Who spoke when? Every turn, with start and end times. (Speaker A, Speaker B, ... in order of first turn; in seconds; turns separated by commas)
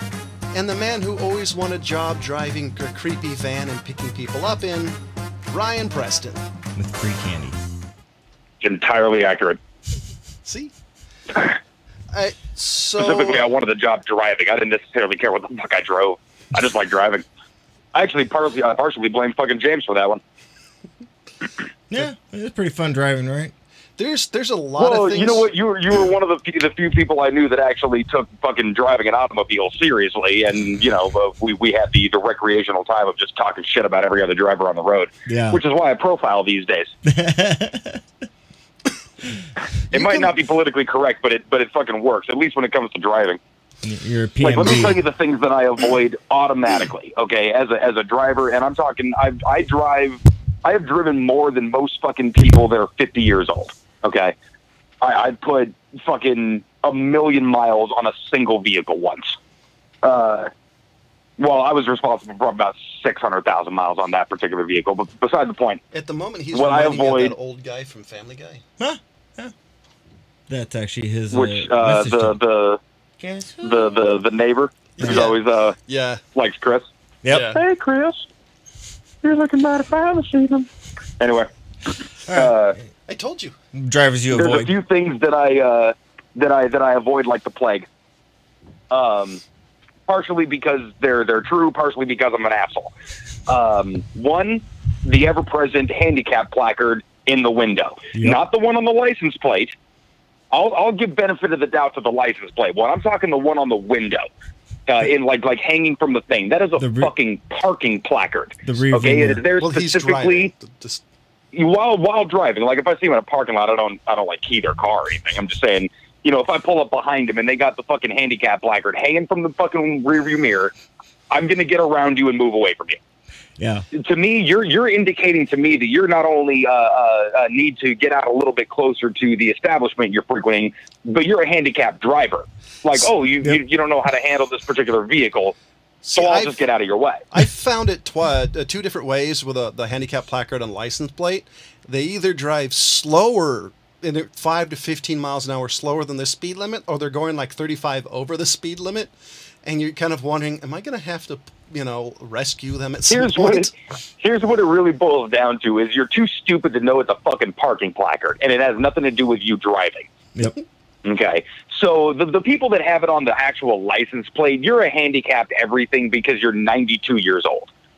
Speaker A: 0.5-5.0, Speaker A: 5.5-6.4, Speaker B: 6.8-7.6, Speaker C: 8.6-9.6, Speaker A: 10.4-10.7, Speaker A: 12.1-13.5, Speaker C: 13.0-17.2, Speaker C: 17.9-20.2, Speaker B: 21.9-23.5, Speaker A: 24.0-25.5, Speaker C: 24.8-36.9, Speaker B: 35.2-35.6, Speaker B: 37.0-38.0, Speaker C: 39.9-43.4, Speaker A: 39.9-40.3, Speaker B: 43.8-45.0, Speaker C: 44.4-54.3, Speaker C: 55.0-59.4, Speaker C: 60.0-60.5, Speaker C: 61.4-65.8, Speaker A: 65.9-68.6, Speaker C: 66.5-67.3, Speaker B: 68.8-69.5, Speaker B: 70.5-72.4, Speaker C: 71.3-72.8, Speaker B: 73.2-74.0, Speaker C: 73.6-75.8, Speaker A: 75.0-76.2, Speaker C: 76.3-78.2, Speaker B: 77.2-77.5, Speaker A: 77.3-77.6, Speaker C: 79.2-80.7, Speaker C: 81.2-81.5, Speaker B: 82.3-82.5, Speaker C: 82.3-82.8, Speaker A: 83.1-83.5, Speaker B: 83.7-84.7, Speaker C: 84.3-87.8, Speaker C: 88.9-89.4, Speaker C: 90.1-92.9, Speaker C: 93.5-99.7, Speaker C: 100.5-104.2, Speaker C: 104.9-110.5, Speaker B: 106.8-107.1, Speaker B: 108.6-109.4, Speaker A: 109.6-111.0, Speaker C: 111.5-120.7, Speaker C: 121.3-123.0, Speaker B: 123.6-123.8, Speaker C: 123.9-135.5, Speaker A: 136.0-136.6, Speaker C: 136.2-137.2, Speaker A: 137.3-149.1, Speaker A: 149.6-153.7, Speaker C: 153.1-160.1, Speaker C: 161.0-167.7